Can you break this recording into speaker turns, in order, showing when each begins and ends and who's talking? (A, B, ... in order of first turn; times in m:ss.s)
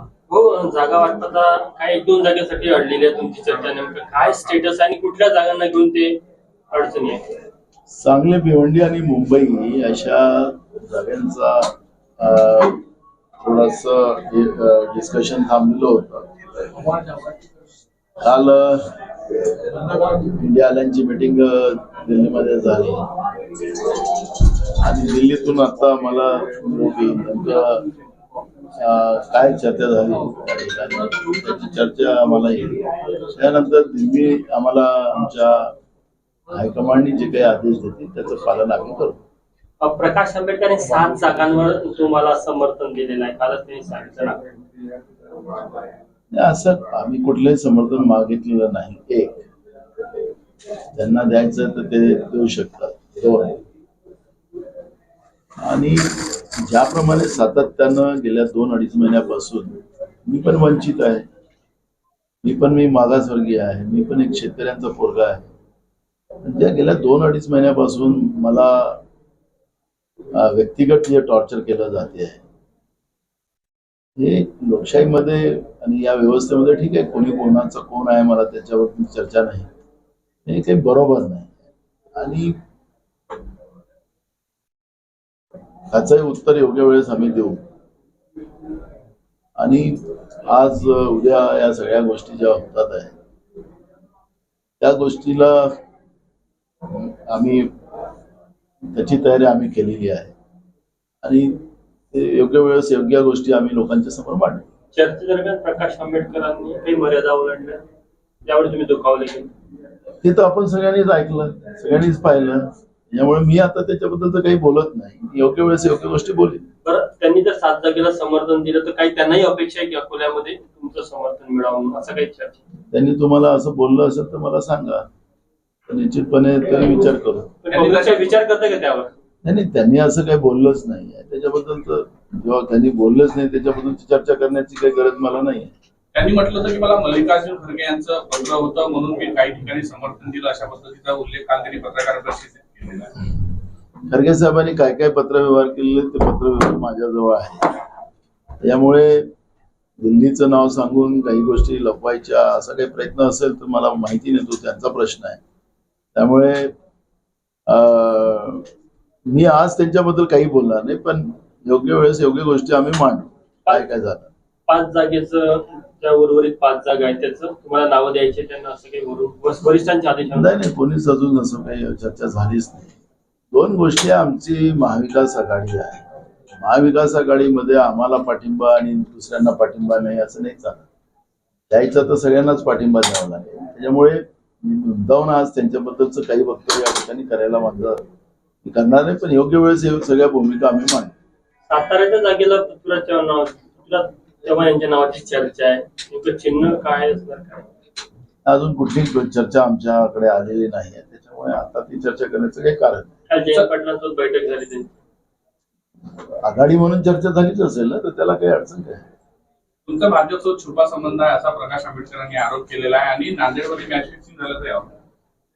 0:00.2-0:06.2 A
0:06.7-0:07.2 A
0:07.9-0:12.8 B
0:13.4-0:16.3 B
0:18.2-0:27.9 B
0:28.8-0:35.8 B
0:36.5-0:39.2 B
0:39.8-0:44.4 A
0:46.3-0:49.4 B
0:50.9-0:53.6 B
0:55.6-1:01.3 B
1:02.4-1:05.5 B
1:06.4-1:09.0 B
1:10.3-1:12.4 B
1:14.2-1:19.7 B
1:20.5-1:21.6 B
1:22.2-1:22.6 B
1:25.9-1:27.6 B
1:29.6-1:33.2 B
1:34.8-1:35.8 B
1:36.8-1:37.7 B
1:38.9-1:40.3 B
1:41.2-1:44.6 B
1:44.9-1:47.8 A
1:48.4-1:49.5 A
1:50.2-1:56.6 B
1:56.8-2:02.6 A
2:02.9-2:05.1 B
2:05.9-2:07.5 B
2:07.6-2:09.1 A
2:07.7-2:08.2 C
2:09.4-2:15.7 B
2:16.1-2:23.3 C
2:24.1-2:27.7 B
2:28.6-2:29.3 B
2:30.0-2:35.4 B
2:36.2-2:36.7 B
2:37.7-2:38.7 B
2:39.3-2:44.3 B
2:44.7-2:50.6 A
2:50.4-2:52.9 B
2:53.5-3:00.9 B
3:01.7-3:08.0 B
3:08.6-3:11.1 B
3:11.7-3:17.7 A
3:18.5-3:23.1 B
3:23.3-3:25.0 A
3:26.4-3:29.0 B
3:29.9-3:34.9 C